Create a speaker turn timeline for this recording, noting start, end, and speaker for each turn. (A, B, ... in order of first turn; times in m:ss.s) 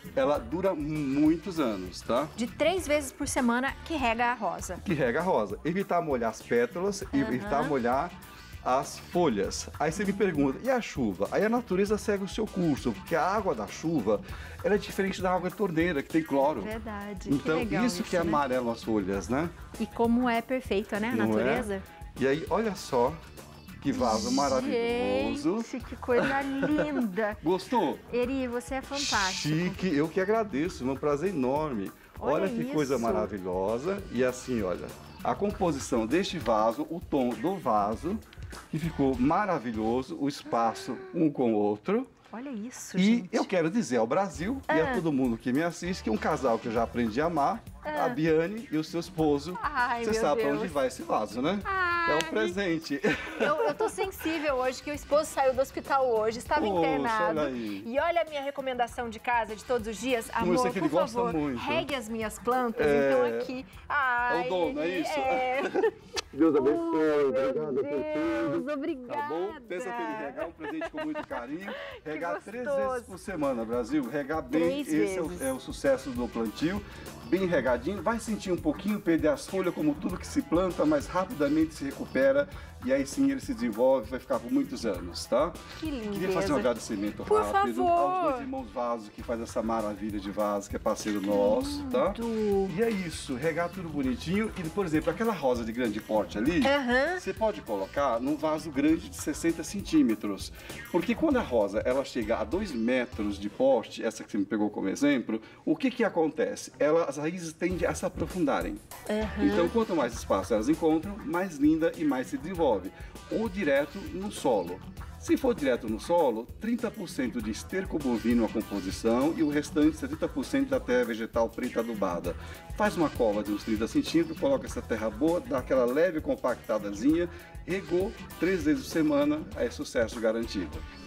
0:00.2-0:02.3 A
0:02.4-0:04.8 B
0:04.8-0:16.7 A
0:07.1-0:07.8 B
0:10.0-0:10.4 B
0:16.6-0:18.4 B
0:17.3-0:19.5 A
0:19.8-0:21.8 B
0:21.1-0:23.2 A
0:23.8-0:28.0 A
0:23.9-0:27.4 B
0:28.0-0:30.0 B
0:28.9-0:42.1 A
0:32.2-0:33.3 B
0:40.5-0:41.2 B
0:42.3-0:43.5 B
0:43.0-0:54.0 A
0:44.7-0:45.0 B
0:47.8-0:48.2 B
0:49.6-0:50.8 B
0:51.6-0:52.6 B
0:53.4-1:05.9 B
0:56.6-0:57.9 A
1:00.4-1:01.9 A
1:02.7-1:03.5 A
1:04.3-1:05.8 A
1:06.3-1:48.8 A
1:06.5-1:13.1 B
1:14.5-1:15.5 B
1:25.8-1:28.5 B
1:31.3-1:32.8 B
1:36.6-1:37.2 B
1:49.1-1:49.8 B
1:49.4-2:10.8 A